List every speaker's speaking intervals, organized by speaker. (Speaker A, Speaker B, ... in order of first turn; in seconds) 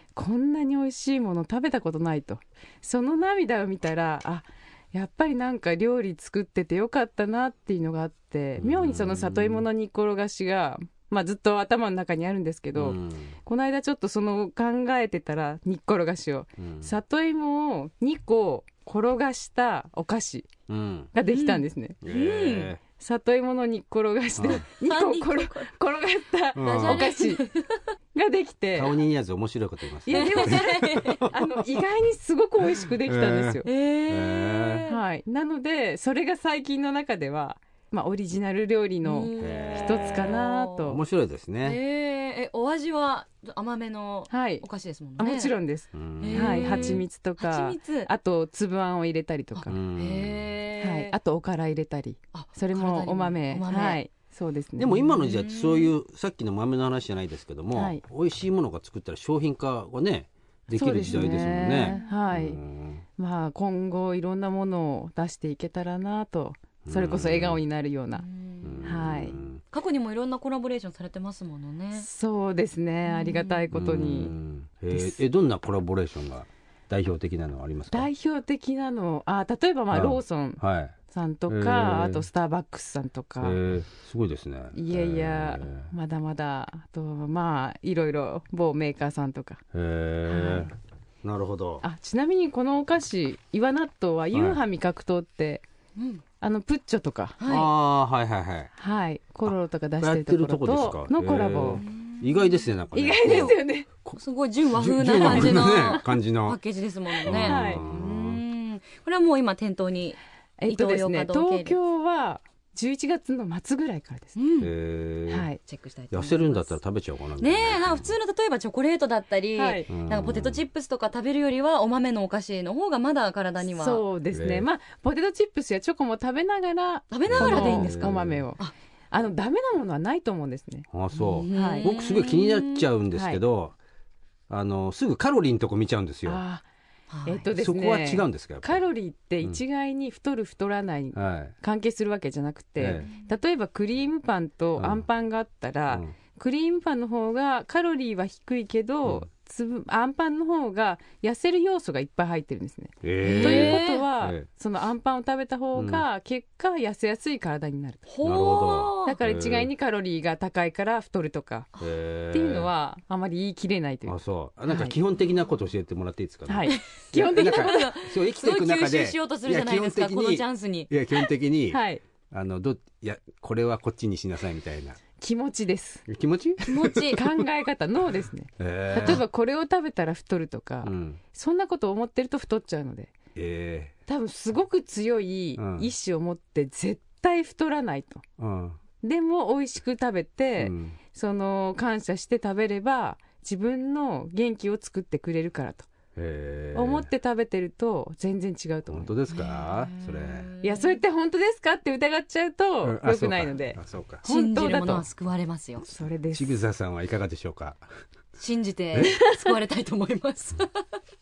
Speaker A: 0.1-20.5, 21.1-22.0, 23.0-27.5, 28.1-28.9, 30.1-33.7, 34.9-41.0, 44.3-44.6, 45.2-49.7, 50.8-55.1, 57.7-58.0, 60.7-62.6, 63.2-68.2, 68.8-69.3, 72.0-74.3, 74.9-75.2, 77.9-83.6, 84.7-89.6, 90.3-90.7, 91.8-95.6, 96.4-97.4, 98.8-101.8, 102.9-103.9, 105.3-105.9, 107.3-107.8, 110.6-114.3, 115.3-115.6, 119.5-119.9, 123.6-130.9, 131.5-131.9, 133.1-133.4, 136.2-136.6, 137.2-158.0, 159.0-161.7, 162.3-164.2, 164.7-164.9, 166.5-167.9, 171.7-172.0, 175.2-176.0, 177.1-183.1, 184.1-188.2, 189.0-195.9, 196.7-199.1, 200.6-205.0, 205.8-206.5, 209.1-209.6
Speaker B: 8.6-9.7, 12.8-13.4, 16.6-16.9, 20.7-21.1, 22.0-22.8, 24.4-24.6, 26.6-27.1, 28.7-31.8, 32.7-34.9, 39.4-41.8, 45.9-47.0, 49.7-50.5, 54.8-63.0, 66.8-67.6, 68.6-69.6, 73.7-78.1, 79.9-81.0, 81.5-82.2, 83.4-85.9, 89.7-91.8, 94.3-94.6, 97.5-98.7, 99.4-104.2, 104.7-106.6, 107.2-108.4, 114.6-115.5, 116.1-118.1, 119.9-120.6, 124.3-124.7, 127.3-128.4, 130.9-133.7, 134.5-136.4, 137.5-138.8, 141.1-141.5, 142.8-143.1, 144.8-145.0, 153.0-154.4, 155.7-156.0, 158.2-159.7, 161.8-162.7, 164.1-175.0, 176.1-177.2, 178.6-179.2, 180.8-181.2, 183.3-183.9, 185.6-185.9, 188.4-188.8, 190.6-191.0, 196.2-197.1, 198.9-200.5, 202.8-204.2, 206.3-207.8
Speaker C: 21.2-22.7, 24.5-25.7, 26.6-27.8, 30.1-31.2, 33.6-35.0, 39.0-40.8, 41.6-45.5, 46.2-48.1, 49.5-51.1, 52.3-54.0, 55.1-55.9, 61.1-62.2, 68.1-69.1, 69.7-72.1, 73.0-73.6, 96.0-96.2, 97.4-97.7, 101.7-102.7, 103.2-103.6, 104.2-111.8, 114.3-114.7, 115.7-116.7, 117.4-124.0, 127.1-128.0, 131.2-132.9, 137.1-137.4, 153.2-154.0, 158.1-159.2, 166.7-171.3, 176.7-177.2, 179.0-179.2, 199.3-201.0, 204.2-205.8, 208.3-211.0